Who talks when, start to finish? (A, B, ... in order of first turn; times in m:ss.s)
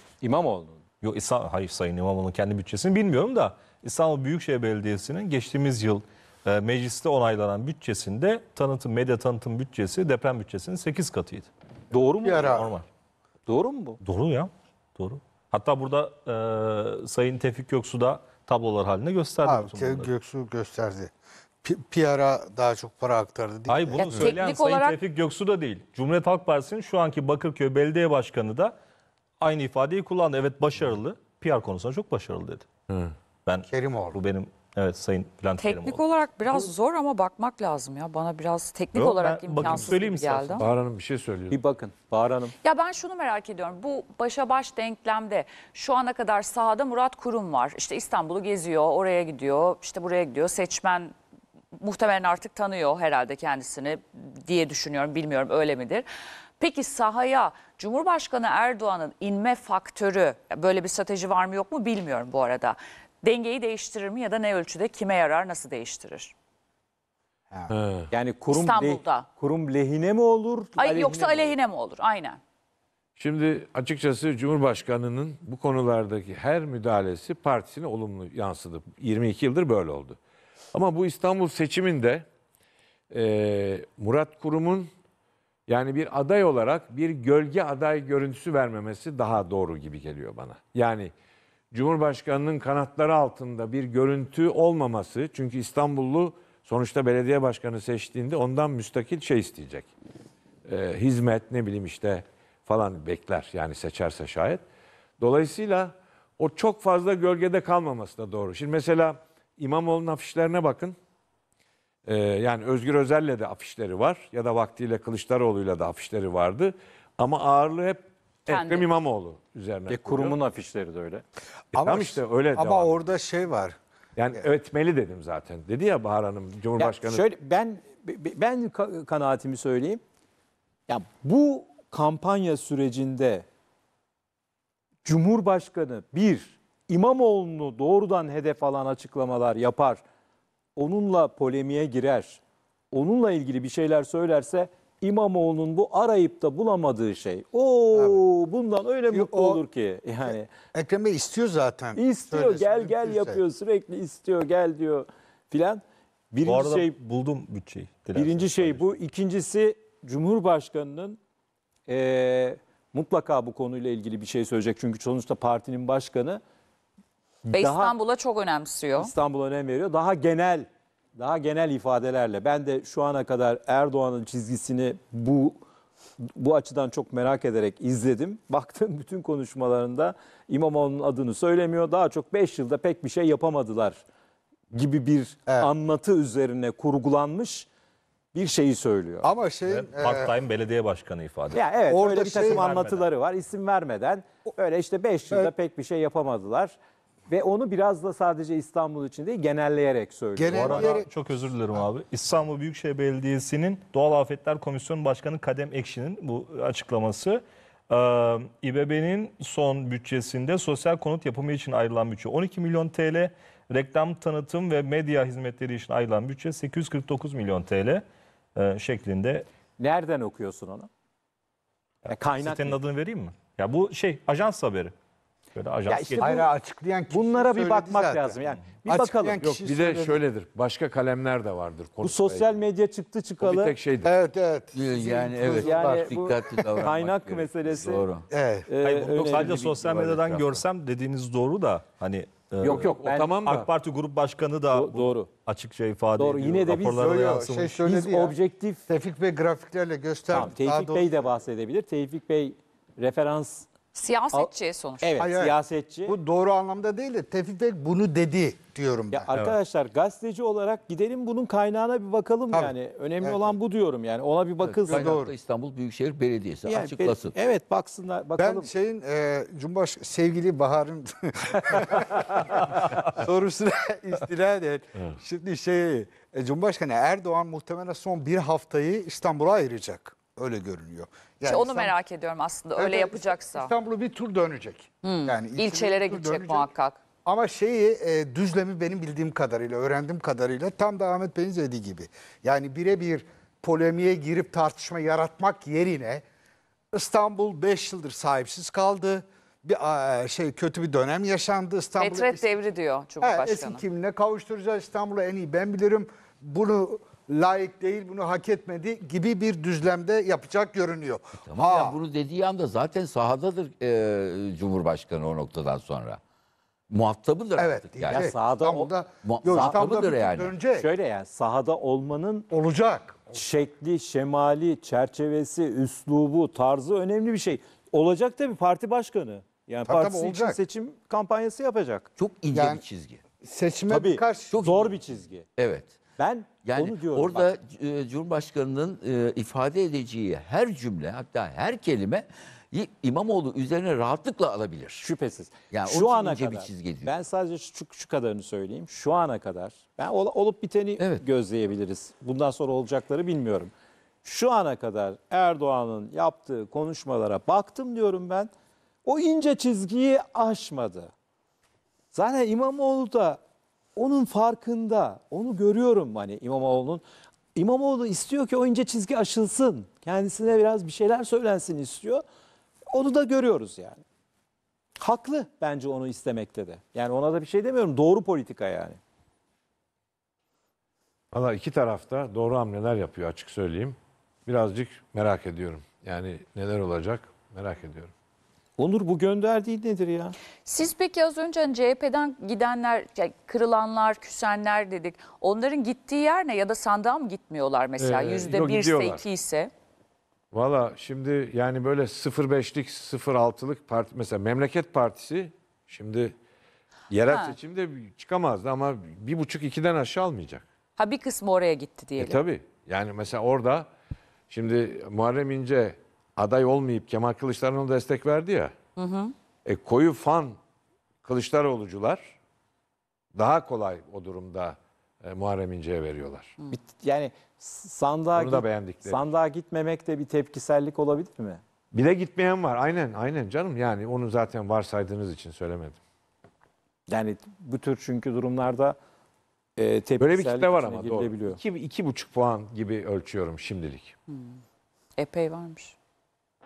0:00.2-0:00.8 A
0:01.0-0:11.5 B
0:11.9-0:12.6 A
0:12.2-0:12.7 C
0:12.4-0:12.9 B
0:13.5-0:14.0 A
0:14.0-0:20.1 B
0:19.4-0:21.1 C
0:21.6-0:24.3 C
0:23.7-0:28.8 B
0:24.0-0:25.0 D
0:29.4-0:32.6 B
0:32.9-0:33.1 E
0:33.5-0:36.7 B
0:33.7-0:34.2 C
0:35.6-0:40.6 D
0:38.9-0:40.7 B
0:40.6-0:41.6 E
0:41.5-0:42.5 A
0:42.6-0:51.1 D
0:51.7-0:56.1 D
0:56.6-1:06.3 D
1:07.7-1:08.1 E
1:08.1-1:11.5 A
1:08.5-1:09.3 D
1:10.8-1:12.4 D
1:13.2-1:20.2 E
1:20.7-1:22.2 E
1:23.1-1:24.9 E
1:25.7-1:31.1 E
1:31.7-1:39.9 E
1:40.6-1:44.6 E
1:45.2-1:51.0 E
1:52.0-2:00.4 E
1:58.5-1:58.9 D
1:59.9-2:01.2 A
2:01.7-2:03.8 C
2:01.8-2:03.1 E
2:04.2-2:07.3 E
2:06.8-2:10.0 A
2:10.9-2:13.4 A
2:15.0-2:20.0 A
2:20.8-2:22.4 A
2:22.9-2:30.5 A
2:27.9-2:28.2 C
2:29.1-2:29.6 C
2:30.7-2:33.4 C
2:32.0-2:36.9 A
2:36.4-2:38.8 B
2:38.1-2:41.2 A
2:41.9-2:46.4 A
2:47.4-2:48.0 A
2:47.5-2:49.1 D
2:49.0-2:55.6 A
2:56.2-3:04.0 A
3:04.7-3:07.7 A
3:08.3-3:09.3 A
3:09.2-3:10.3 C
3:09.6-3:11.6 B
3:11.5-3:16.8 A
3:11.9-3:12.7 C
3:12.1-3:13.0 B
3:17.3-3:20.9 A
3:20.4-3:21.1 C
3:20.5-3:38.0 B
3:38.5-3:39.5 B
3:39.8-3:40.9 A
3:42.1-3:42.8 A
3:42.4-3:44.9 B
3:45.5-3:46.3 B
3:45.9-3:46.5 A
3:46.2-3:50.2 C
3:47.1-3:49.4 A
3:49.4-3:52.6 E
3:52.0-3:53.8 A
3:53.4-3:54.1 E
3:54.0-3:56.9 C
3:54.7-3:58.2 F
3:55.5-3:58.0 A
3:58.3-3:58.7 C
3:58.7-3:59.8 A
3:58.8-4:02.9 B
3:59.3-4:00.2 E
4:02.6-4:03.4 A
4:02.7-4:03.7 E
4:03.4-4:07.8 B
4:04.7-4:05.3 A
4:06.2-4:07.0 A
4:06.8-4:08.4 C
4:07.8-4:08.8 A
4:08.9-4:11.2 C
4:10.3-4:13.7 A
4:13.9-4:15.1 D
4:14.3-4:16.1 A
4:15.2-4:19.2 C
4:19.1-4:25.2 A
4:22.5-4:23.5 C
4:24.6-4:27.4 F
4:24.9-4:25.4 C
4:26.6-4:28.7 A
4:28.4-4:42.0 C
4:41.5-4:43.7 D
4:42.8-4:46.7 C
4:45.0-4:47.0 D
4:47.2-4:56.2 C
4:56.9-5:02.6 C
5:02.0-5:03.8 D
5:03.2-5:12.0 C
5:11.4-5:16.2 F
5:16.9-5:18.3 F
5:17.6-5:20.9 C
5:18.1-5:18.9 A
5:19.2-5:20.5 F
5:19.5-5:19.8 A
5:20.7-5:22.5 A
5:22.5-5:23.3 C
5:23.3-5:32.1 A
5:29.9-5:30.6 C
5:32.2-5:33.2 F
5:32.5-5:32.9 C
5:33.4-5:34.6 C
5:33.9-5:35.5 A
5:34.5-5:35.0 F
5:35.6-5:36.0 F
5:36.2-5:37.5 A
5:36.6-5:45.1 F
5:45.0-5:53.7 A
5:45.7-5:47.1 F
5:54.2-5:58.5 A
5:59.0-6:01.1 A
6:02.1-6:03.4 A
6:04.0-6:07.0 A
6:07.6-6:12.2 A
6:12.9-6:14.0 A
6:15.0-6:19.0 A
6:21.3-6:28.1 E
6:28.8-6:30.4 A
6:30.6-6:39.7 D
6:38.0-6:39.2 E
6:40.5-6:46.4 E
6:47.1-6:50.6 E
6:47.3-6:47.6 D
6:51.0-6:52.4 D
6:52.2-6:53.9 E
6:54.5-6:58.7 E
6:59.0-6:59.3 D
6:59.6-7:00.6 E
7:01.2-7:02.4 E
7:03.4-7:06.5 E
7:06.7-7:11.6 A
7:08.4-7:09.3 E
7:11.9-7:16.0 E
7:17.1-7:19.0 A
7:19.8-7:21.6 A
7:20.2-7:24.1 E
7:24.3-7:24.6 D
7:25.2-7:25.9 D